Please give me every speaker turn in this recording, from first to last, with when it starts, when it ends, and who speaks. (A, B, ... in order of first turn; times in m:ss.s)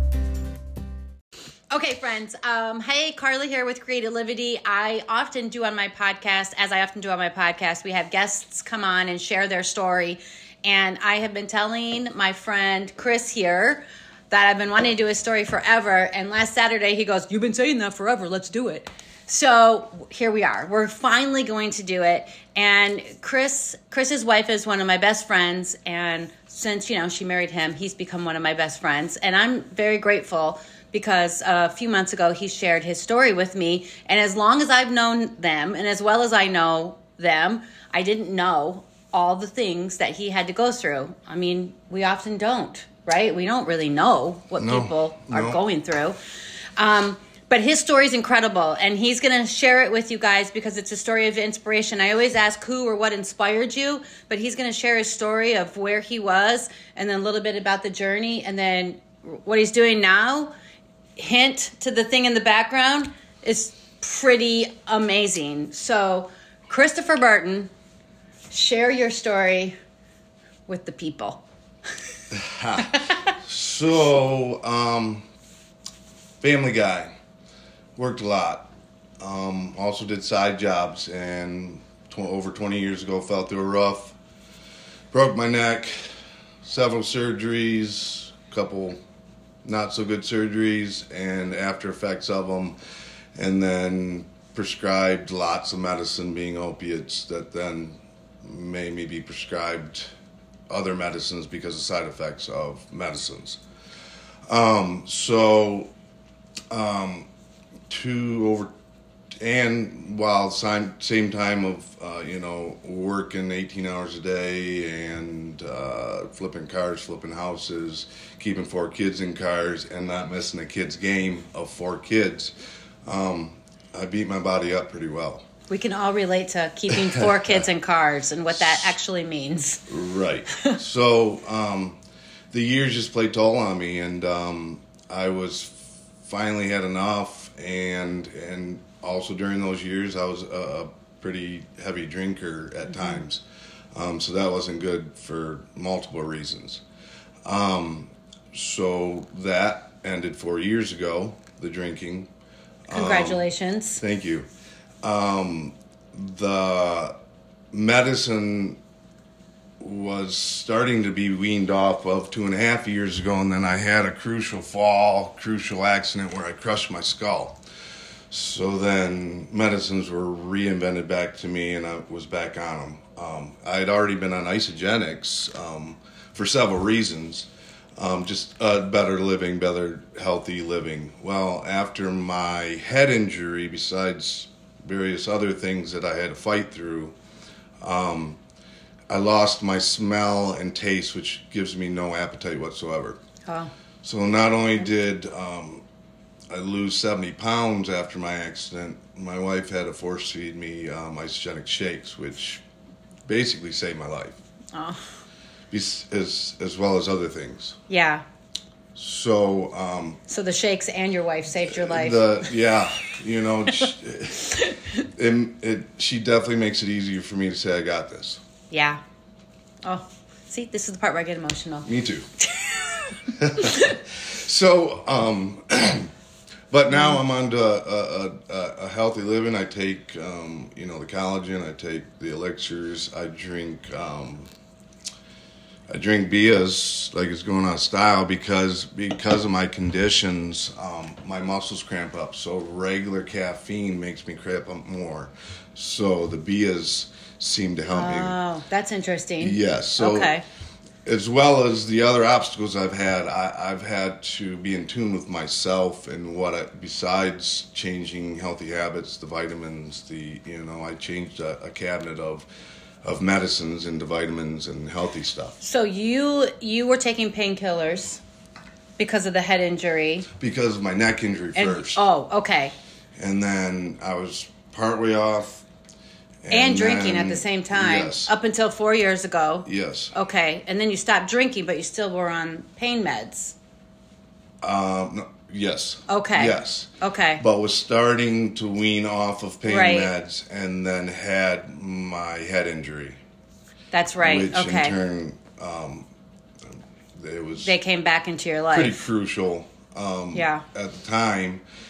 0:01.7-0:46.2 A
0:44.6-0:45.6 B
0:46.8-1:00.5 A
1:01.2-1:07.7 A
1:08.5-1:09.7 A
1:10.7-1:11.4 A
1:12.3-1:15.2 B
1:13.0-1:13.3 A
1:16.4-1:17.1 B
1:18.0-1:24.2 B
1:25.1-1:29.0 B
1:29.6-1:32.8 B
1:33.3-1:40.1 B
1:40.7-1:43.6 B
1:44.5-1:45.9 B
1:46.7-1:47.3 B
1:47.9-1:48.7 B
1:49.3-2:02.5 B
2:03.0-2:05.4 B
2:05.7-2:09.9 A
2:06.9-2:07.3 B
2:08.5-2:08.9 B
2:09.9-2:12.0 B
2:12.5-2:23.4 B
2:23.9-2:26.8 B
2:27.4-2:32.3 B
2:32.9-2:33.4 B
2:32.9-2:34.0 A
2:34.0-2:34.4 B
2:35.0-2:37.1 B
2:37.7-2:38.8 B
2:39.8-2:47.6 B
2:48.3-3:07.1 B
3:07.8-3:08.4 B
3:09.1-3:13.2 B
3:14.0-3:15.8 B
3:16.5-3:22.6 B
3:23.2-3:24.4 B
3:24.7-3:25.0 A
3:25.7-3:27.8 B
3:27.9-3:28.2 A
3:28.9-3:30.2 B
3:30.3-3:32.4 A
3:31.7-3:34.6 B
3:34.5-3:34.8 A
3:35.2-3:38.4 B
3:38.7-3:39.0 A
3:39.8-3:41.8 A
3:41.8-3:42.3 B
3:42.4-3:44.0 A
3:43.3-3:46.1 B
3:46.7-3:54.5 B
3:46.9-3:47.2 A
3:55.9-4:08.4 B
4:07.9-4:10.4 A
4:09.4-4:10.4 B
4:11.0-4:22.5 B
4:23.0-4:25.6 B
4:25.6-4:28.2 A
4:29.0-4:30.3 A
4:30.4-4:32.0 B
4:31.6-4:32.7 A
4:33.2-4:35.6 B
4:36.4-4:38.3 B
4:36.5-4:43.5 A
4:39.6-4:40.1 B
4:44.6-4:53.2 B
4:46.1-4:47.4 A
4:49.7-4:50.1 A
4:53.9-4:55.0 A
4:54.2-4:56.0 B
4:56.7-4:57.7 B
4:57.6-4:59.0 A
4:58.7-5:01.6 B
5:00.3-5:00.6 A